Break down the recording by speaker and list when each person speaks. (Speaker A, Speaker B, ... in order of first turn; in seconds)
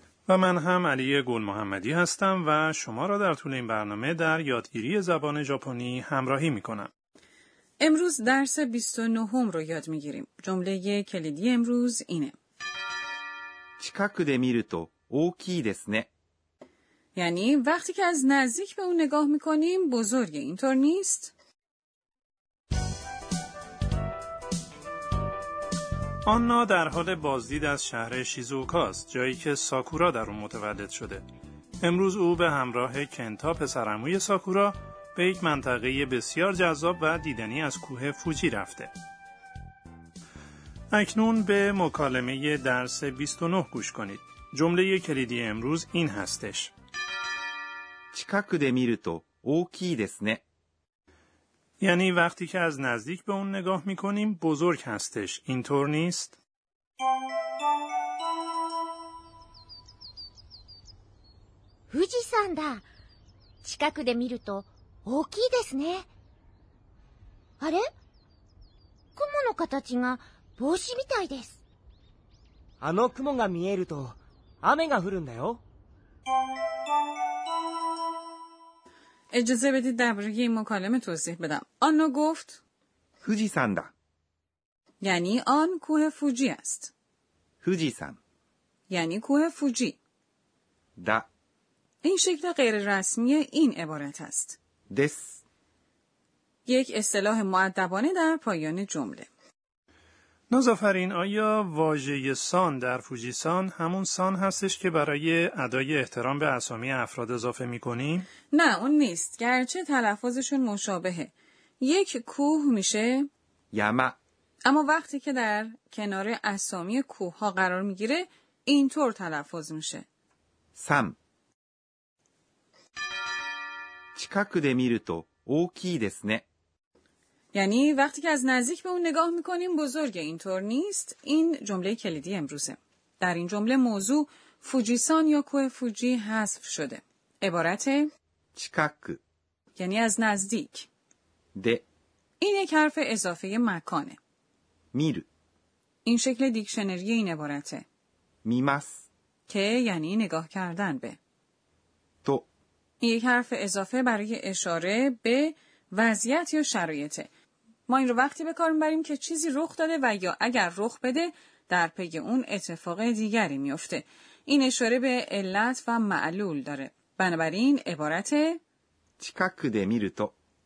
Speaker A: 0.3-6.9, 26.2-31.2, 31.8-38.9, 40.9-46.7, 51.8-56.4, 100.5-108.3
Speaker B: 7.8-12.3, 17.1-21.3, 79.3-82.6, 85.0-86.9, 88.9-90.0, 92.0-94.6, 96.7-99.3, 108.5-113.3, 114.7-120.0, 127.5-138.1, 139.8-140.9, 142.4-144.2, 146.0-147.8, 149.5-151.2, 153.0-157.3, 157.9-168.6
Speaker C: 13.8-16.1, 48.1-50.4, 83.2-83.9, 87.6-88.2, 91.0-91.3, 94.9-95.4, 113.7-114.2, 120.8-121.2, 124.2-126.4, 138.6-139.2, 141.6-141.8, 144.9-145.3, 148.4-149.1, 169.2-170.3
Speaker D: 61.9-62.8, 63.6-66.1, 67.6-67.8, 69.2-71.6
Speaker E: 72.8-75.6